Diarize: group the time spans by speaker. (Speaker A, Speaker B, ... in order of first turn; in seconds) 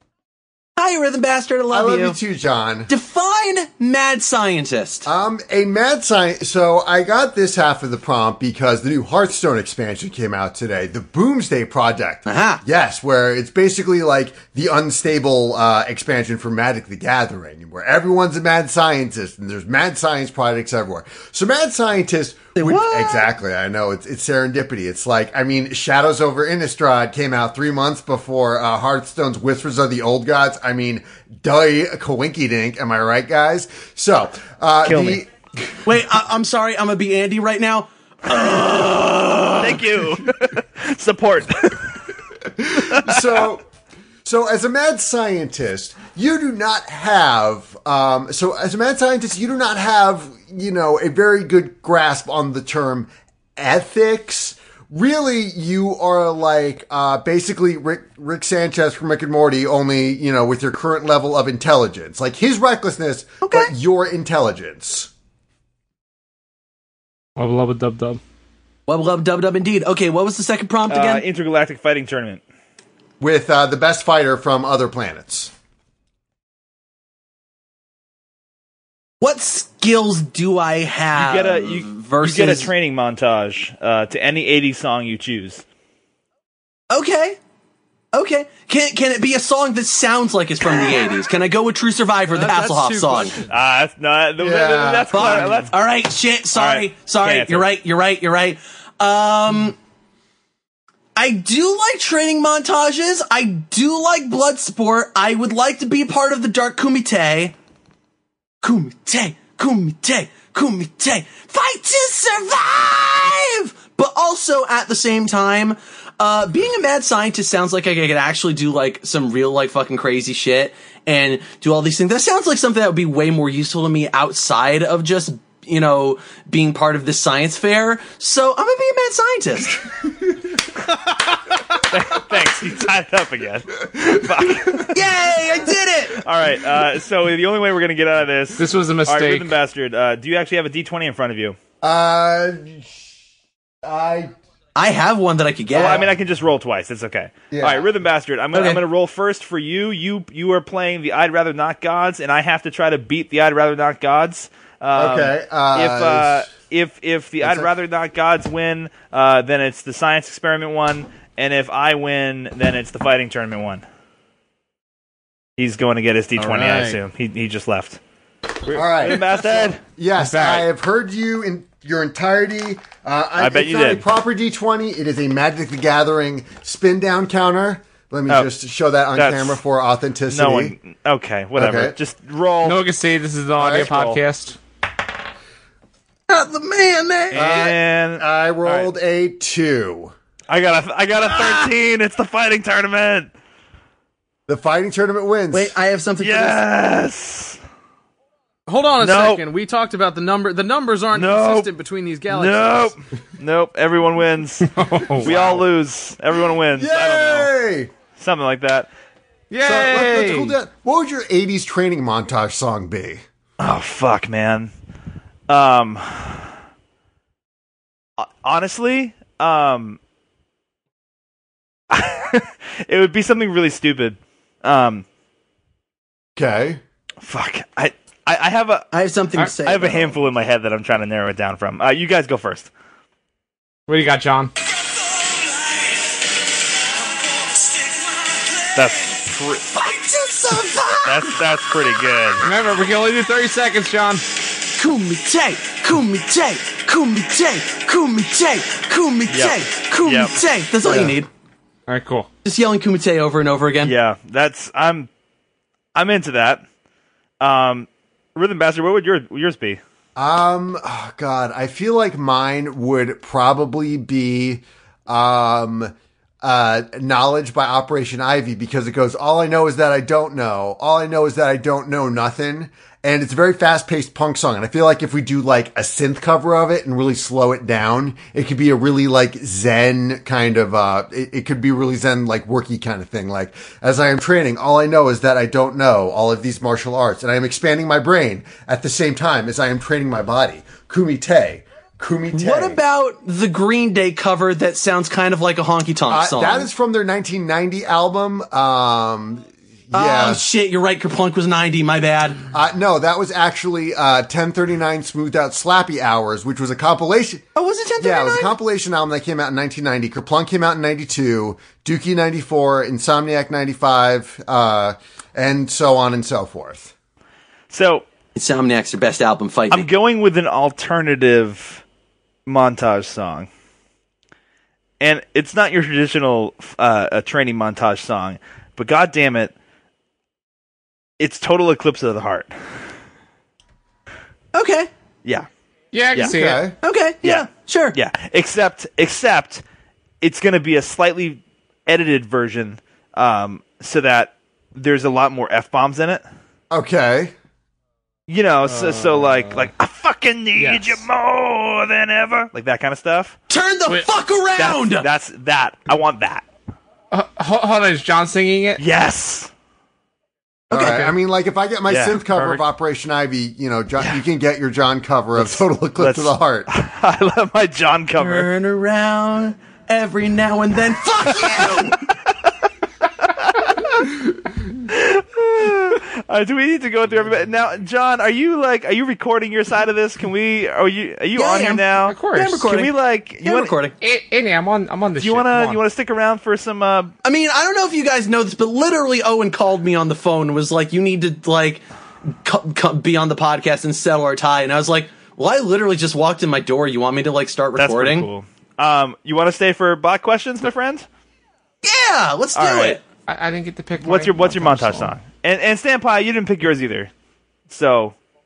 Speaker A: 0.8-2.1, 2.9-5.1, 12.2-12.6, 22.6-23.2, 35.9-39.8, 63.4-63.7, 68.9-71.2, 79.2-82.7, 86.9-87.4, 88.1-93.4, 95.1-99.8, 101.2-107.5, 108.6-129.8, 134.9-136.2, 144.8-146.0, 148.5-148.8, 186.3-187.6, 195.5-196.6, 228.9-230.2, 235.1-236.1, 236.9-241.4, 244.7-251.3, 252.4-253.9, 292.3-296.7, 299.9-302.4, 307.6-308.5, 318.4-319.9, 334.5-334.9, 336.8-338.0, 353.5-355.1, 360.7-361.1, 368.2-372.0, 381.3-383.9, 387.2-398.3, 401.8-403.0
Speaker B: 1.7-2.9, 5.0-35.8, 42.5-43.6, 44.2-65.1, 73.2-75.5, 94.4-95.7, 141.8-143.1, 143.8-144.3, 147.5-147.9, 154.9-156.5, 157.4-157.7, 168.7-180.7, 181.6-181.9, 183.6-183.8, 187.3-190.1, 194.5-195.7, 205.2-205.6, 206.7-207.9, 209.6-213.2, 226.3-226.8, 260.1-292.8, 296.1-300.4, 302.5-307.4, 308.0-316.9, 336.2-336.8, 346.7-347.3, 360.7-366.7
Speaker C: 34.8-35.2, 39.6-42.1, 42.8-43.4, 70.9-72.4, 81.1-85.6, 93.5-95.7, 96.5-97.7, 131.8-135.1, 136.1-141.6, 145.7-163.8, 165.6-168.0, 168.6-169.8, 173.4-174.0, 179.1-179.6, 180.3-182.8, 183.6-184.2, 187.3-188.9, 190.5-193.3, 196.2-197.6, 199.0-199.4, 201.1-201.7, 202.3-207.5, 208.2-208.9, 213.6-214.7, 215.5-216.5, 218.2-220.0, 221.9-225.0, 227.2-228.9, 229.6-232.7, 238.7-239.6, 241.0-242.4, 249.3-250.3, 253.8-255.1, 255.9-256.6, 257.4-259.8, 317.7-318.1, 319.7-321.8, 322.4-323.5, 325.0-329.5, 331.2-332.5, 337.2-339.6, 340.2-346.2, 348.3-353.4, 354.6-356.4, 358.8-359.5, 361.9-362.1, 365.4-368.5, 371.4-371.9, 373.2-374.1, 374.8-383.7, 385.2-387.1, 397.8-401.1, 402.5-403.0, 404.0-407.1, 407.7-408.1
Speaker D: 67.4-68.2, 138.6-139.6, 170.2-170.7, 182.6-184.6, 204.6-205.6, 209.5-210.5, 233.9-234.5, 242.4-244.2, 251.9-252.3, 335.9-336.7, 357.1-358.8, 360.8-361.1, 362.3-362.6, 382.1-382.6, 384.0-385.8, 403.3-405.1
Speaker E: 92.3-93.5, 166.4-167.0, 198.7-202.9, 348.6-349.6, 350.6-351.0